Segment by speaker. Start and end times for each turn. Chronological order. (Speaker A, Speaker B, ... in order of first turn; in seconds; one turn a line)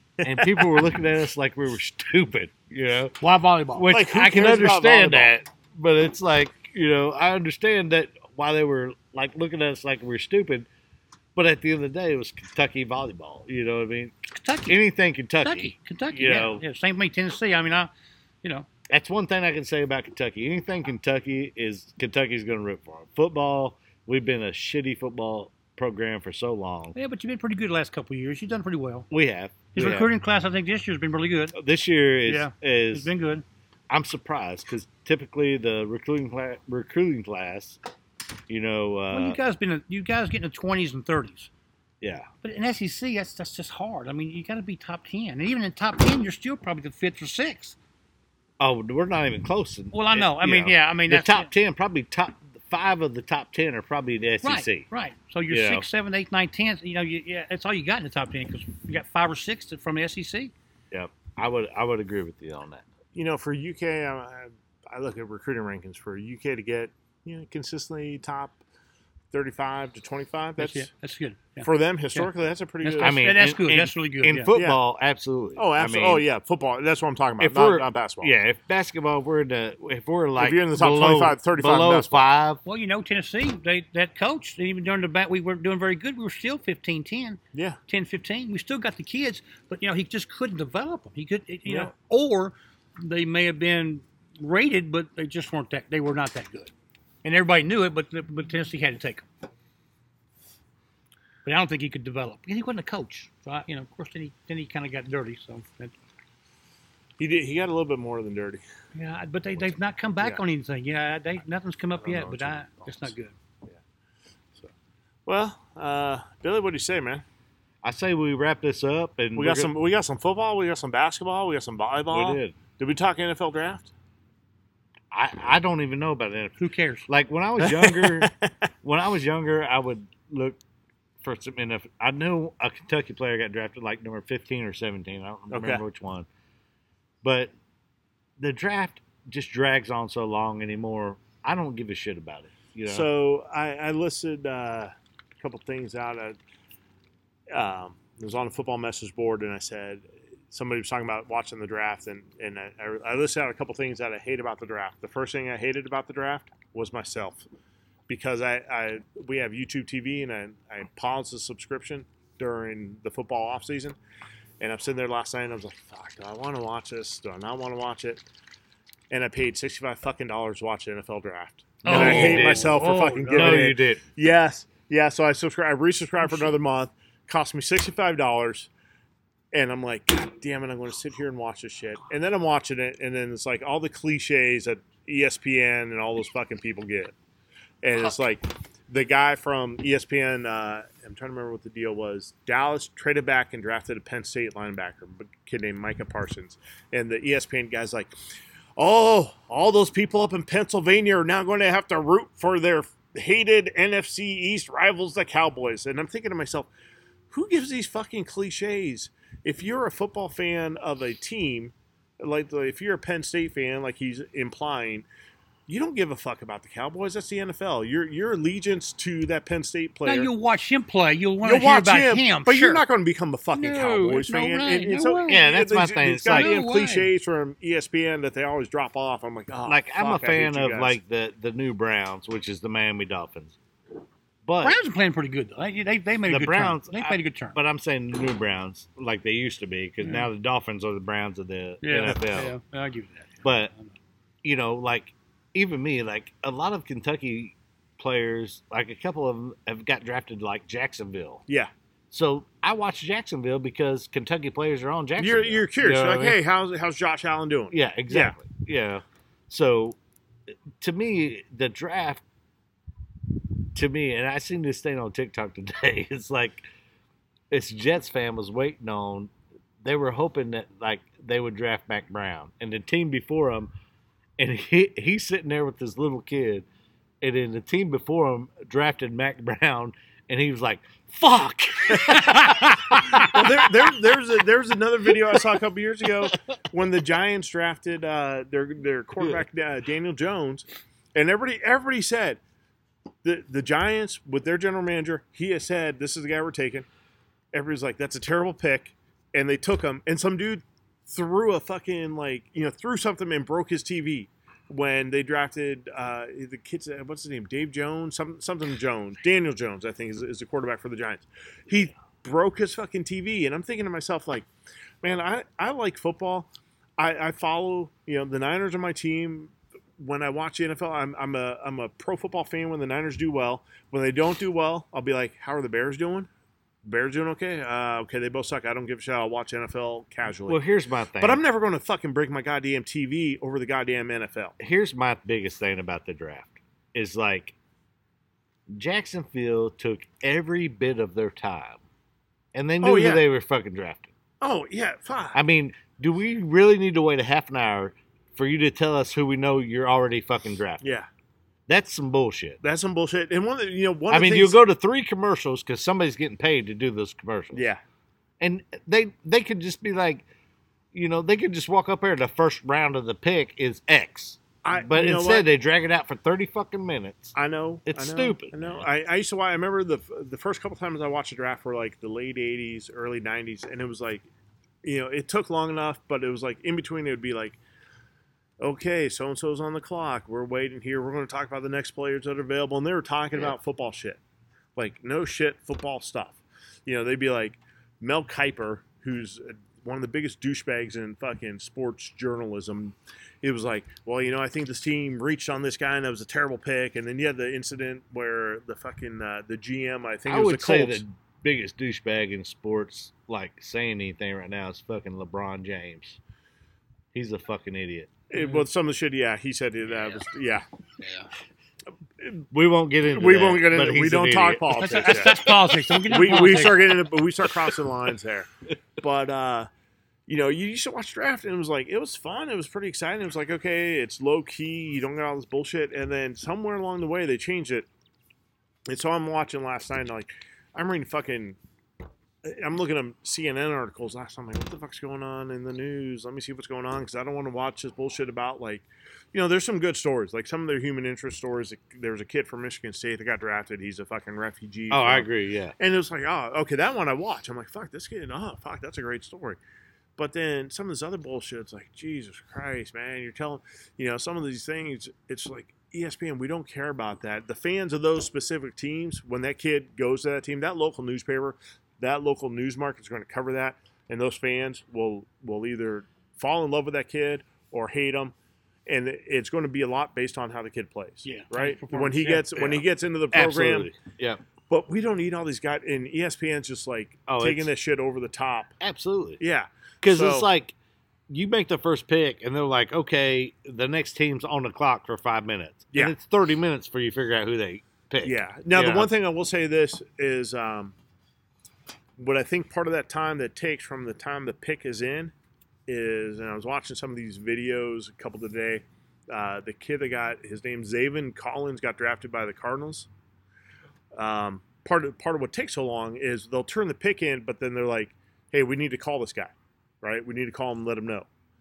Speaker A: 0.2-3.2
Speaker B: 0.2-0.7
Speaker C: 3.2-3.9
Speaker A: 3.7-10.7
Speaker B: 3.9-5.3
Speaker A: 11.3-14.2
Speaker C: 14.3-14.8
Speaker A: 14.7-16.6
Speaker C: 15.4-17.9
Speaker A: 18.9-27.0
Speaker C: 26.9-29.1
Speaker A: 29.1-30.1
Speaker C: 29.7-31.6
Speaker A: 31.6-33.1
Speaker C: 32.2-33.5
Speaker A: 33.9-37.8
Speaker A: 38.5-39.4
Speaker C: 39.1-41.5
Speaker A: 42.0-42.3
Speaker C: 42.4-47.8
Speaker A: 48.6-54.9
Speaker C: 49.9-51.5
Speaker C: 54.4-60.5
Speaker A: 55.5-55.9
Speaker A: 60.9-62.8
Speaker B: 63.1-68.6
Speaker B: 69.3-70.9
Speaker C: 70.6-72.3
Speaker B: 71.6-73.2
Speaker C: 72.8-74.5
Speaker A: 73.0-76.2
Speaker B: 74.5-74.8
Speaker B: 75.6-78.3
Speaker A: 77.4-82.6
Speaker B: 80.4-82.3
Speaker C: 82.7-96.7
Speaker B: 87.5-87.8
Speaker B: 91.7-91.9
Speaker C: 97.2-99.2
Speaker C: 101.5-106.0
Speaker B: 107.2-108.6
Speaker C: 109.0-113.3
Speaker B: 112.0-113.1
Speaker B: 115.3-117.2
Speaker A: 117.8-119.7
Speaker B: 119.3-123.9
Speaker A: 122.1-122.6
Speaker A: 125.1-126.6
Speaker C: 126.6-127.1
Speaker A: 127.1-128.3
Speaker B: 127.6-128.5
Speaker A: 128.8-130.6
Speaker A: 131.2-136.3
Speaker B: 135.5-135.8
Speaker A: 137.2-137.5
Speaker A: 138.4-143.1
Speaker B: 142.9-146.4
Speaker B: 147.5-157.5
Speaker B: 158.1-164.0
Speaker B: 164.6-168.2
Speaker B: 169.1-178.7
Speaker A: 171.8-174.0
Speaker C: 171.8-173.7
Speaker B: 179.5-187.2
Speaker B: 187.8-198.1
Speaker B: 198.8-206.7
Speaker B: 207.3-215.1
Speaker B: 215.7-220.3
Speaker C: 220.1-222.8
Speaker B: 221.4-231.0
Speaker C: 223.5-225.4
Speaker A: 225.3-226.5
Speaker C: 226.3-227.1
Speaker A: 229.7-233.6
Speaker A: 234.4-234.8
Speaker C: 234.6-237.6
Speaker A: 236.3-242.6
Speaker C: 240.0-240.3
Speaker C: 241.8-243.9
Speaker A: 243.4-243.7
Speaker A: 244.4-251.4
Speaker A: 252.1-256.4
Speaker B: 255.2-258.4
Speaker A: 257.7-260.0
Speaker A: 260.8-262.2
Speaker A: 263.7-266.7
Speaker A: 267.5-269.3
Speaker A: 269.8-273.7
Speaker A: 274.4-276.7
Speaker A: 277.2-283.7
Speaker C: 282.1-282.4
Speaker B: 283.1-292.4
Speaker A: 285.3-285.6
Speaker B: 293.2-296.9
Speaker B: 297.5-314.5
Speaker B: 315.0-326.3
Speaker B: 326.8-330.6
Speaker A: 330.3-331.4
Speaker B: 331.2-334.6
Speaker A: 334.6-337.6
Speaker A: 338.7-341.8
Speaker A: 342.5-344.1
Speaker B: 342.8-343.2
Speaker B: 344.4-345.4
Speaker A: 345.3-350.8
Speaker B: 350.8-351.1
Speaker A: 351.7-352.6
Speaker B: 352.6-354.6
Speaker A: 354.1-357.7
Speaker B: 357.5-357.8
Speaker A: 358.4-360.2
Speaker A: 360.9-367.4
Speaker B: 364.6-365.5
Speaker B: 367.4-374.3
Speaker A: 367.9-368.9
Speaker B: 374.8-377.6
Speaker B: 378.6-384.2
Speaker B: 384.8-401.0
Speaker A: 400.3-406.2
Speaker A: 407.1-408.1
Speaker B: 408.3-410.7
Speaker C: 408.3-408.6
Speaker C: 411.0-411.3
Speaker A: 412.5-415.5
Speaker B: 413.1-418.5
Speaker C: 414.8-416.9
Speaker A: 416.0-416.9
Speaker B: 419.0-419.7
Speaker B: 420.3-427.9
Speaker B: 428.9-431.6
Speaker B: 432.4-445.3
Speaker A: 444.9-445.8
Speaker B: 445.8-449.6
Speaker B: 450.2-468.4
Speaker B: 468.9-473.9
Speaker C: 471.2-472.8
Speaker A: 473.3-474.4
Speaker B: 474.7-478.7
Speaker A: 477.3-477.7
Speaker A: 478.8-479.4
Speaker B: 479.4-480.5
Speaker A: 480.0-480.8
Speaker A: 481.3-489.1
Speaker B: 488.2-490.9
Speaker B: 492.2-495.3
Speaker B: 495.9-503.1
Speaker B: 504.1-511.3